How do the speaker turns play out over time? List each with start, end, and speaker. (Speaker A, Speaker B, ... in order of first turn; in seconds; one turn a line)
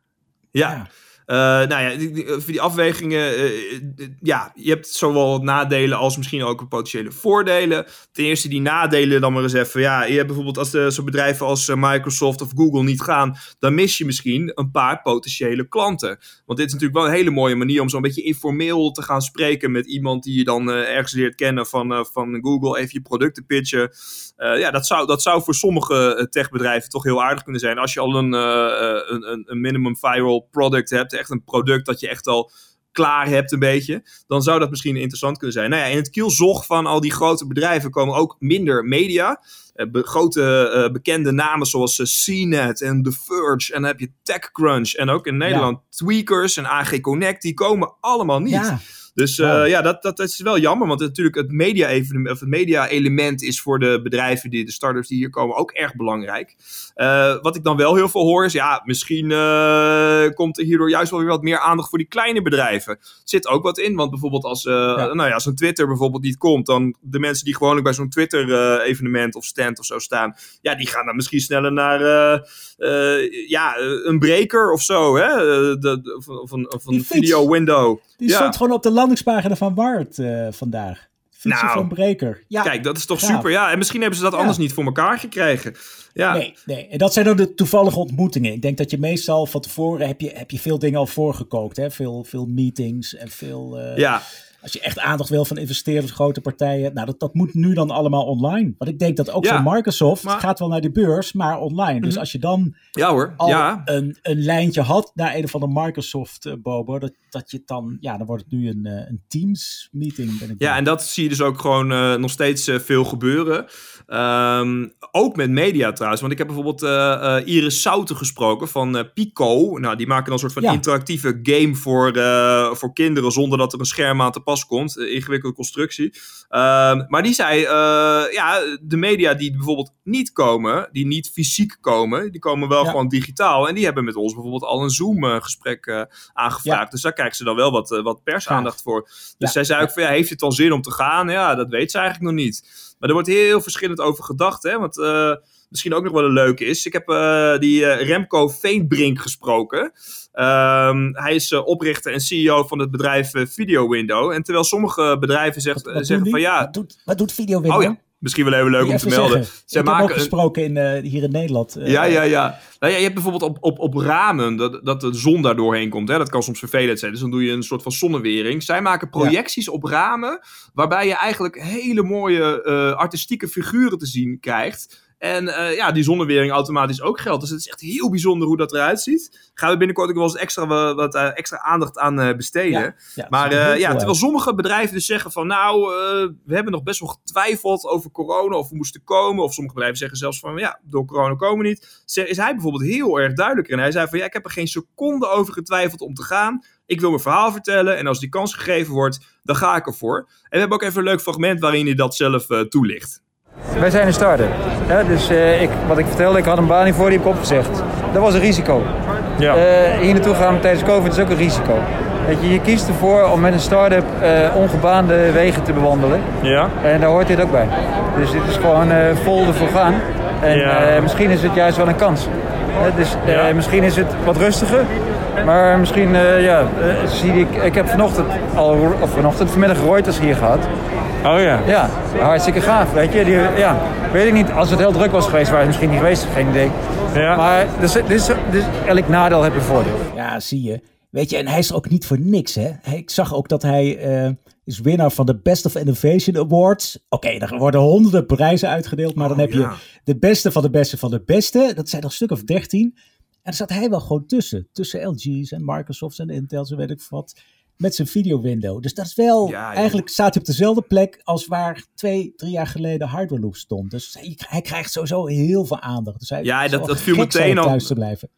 Speaker A: 0.5-78.5
Speaker B: 48.5-48.8
Speaker B: 49.4-49.6
Speaker B: 76.9-77.5
Speaker B: 78.2-83.5
Speaker A: 81.4-81.9
Speaker A: 82.6-86.4
Speaker B: 86.3-94.1
Speaker A: 93.9-94.2
Speaker B: 94.6-102.7
Speaker A: 99.4-99.7
Speaker A: 102.9-103.9
Speaker B: 103.4-110.8
Speaker A: 110.6-156.7
Speaker B: 138.5-138.8
Speaker B: 139.4-139.9
Speaker B: 155.7-158.0
Speaker A: 157.7-160.3
Speaker B: 158.8-162.2
Speaker A: 161.8-203.2
Speaker B: 182.7-184.2
Speaker C: 203.8-208.9
Speaker A: 209.4-209.6
Speaker C: 209.5-216.3
Speaker A: 216.4-216.7
Speaker C: 216.8-230.7
Speaker A: 220.5-221.1
Speaker A: 223.2-223.5
Speaker A: 231.2-231.6
Speaker C: 231.3-236.8
Speaker A: 237.1-237.4
Speaker C: 237.3-240.1
Speaker B: 240.1-268.3
Speaker A: 249.2-249.8
Speaker A: 259.4-260.0
Speaker A: 266.4-267.9